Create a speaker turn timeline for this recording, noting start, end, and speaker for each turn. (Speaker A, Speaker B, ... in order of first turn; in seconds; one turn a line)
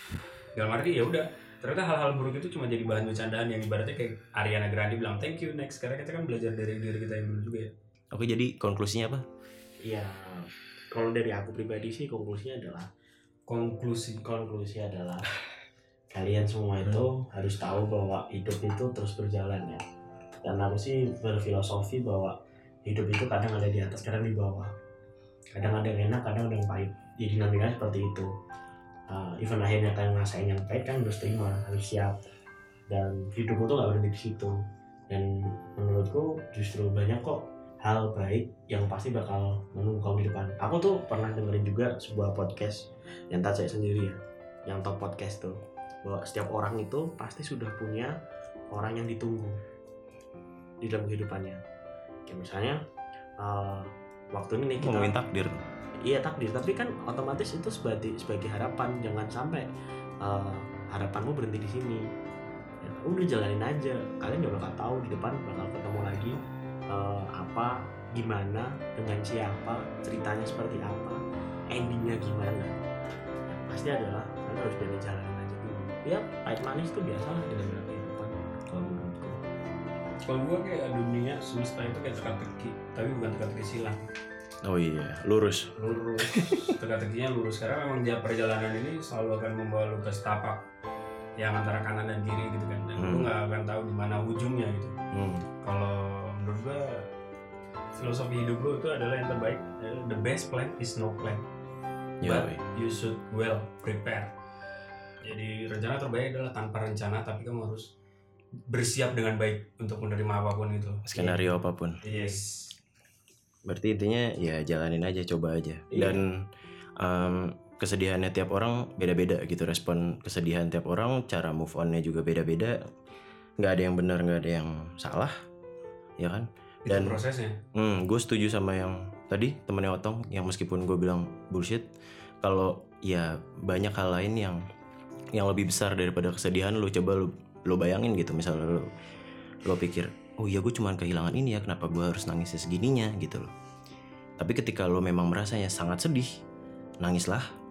Speaker A: 0.5-7.7
Speaker B: 8.1-9.2
Speaker C: 9.8-12.9
Speaker A: 13.5-14.2
Speaker C: 14.2-15.3
Speaker C: 16.1-19.8
Speaker C: 20.4-24.7
Speaker C: 25.5-28.3
Speaker C: 29.1-32.2
Speaker C: 32.9-34.6
Speaker C: 35.1-48.1
Speaker C: 48.7-49.5
Speaker C: 50.8-51.6
Speaker C: 52.2-52.8
Speaker C: 53.4-55.2
Speaker B: 54.8-55.6
Speaker C: 56.0-59.7
Speaker C: 60.2-62.0
Speaker C: 62.8-66.4
Speaker C: 66.9-71.2
Speaker C: 71.7-72.7
Speaker C: 73.5-79.4
Speaker A: 80.2-84.0
Speaker B: 84.6-85.7
Speaker A: 85.8-90.7
Speaker B: 86.2-86.7
Speaker A: 91.4-94.9
Speaker B: 93.0-93.3
Speaker B: 95.1-95.4
Speaker A: 95.6-97.1
Speaker A: 97.9-101.5
Speaker B: 102.2-102.6
Speaker A: 102.2-104.3
Speaker A: 105.2-107.9
Speaker A: 108.7-111.1
Speaker B: 111.0-112.0
Speaker A: 112.0-112.8
Speaker B: 113.6-116.5
Speaker C: 115.9-116.2
Speaker B: 117.0-122.8
Speaker B: 123.6-125.3
Speaker B: 126.2-127.2
Speaker A: 126.8-127.6
Speaker B: 127.7-131.8
Speaker B: 132.4-134.6
Speaker B: 135.3-138.9
Speaker B: 139.7-143.5
Speaker B: 144.4-146.3
Speaker B: 147.0-147.4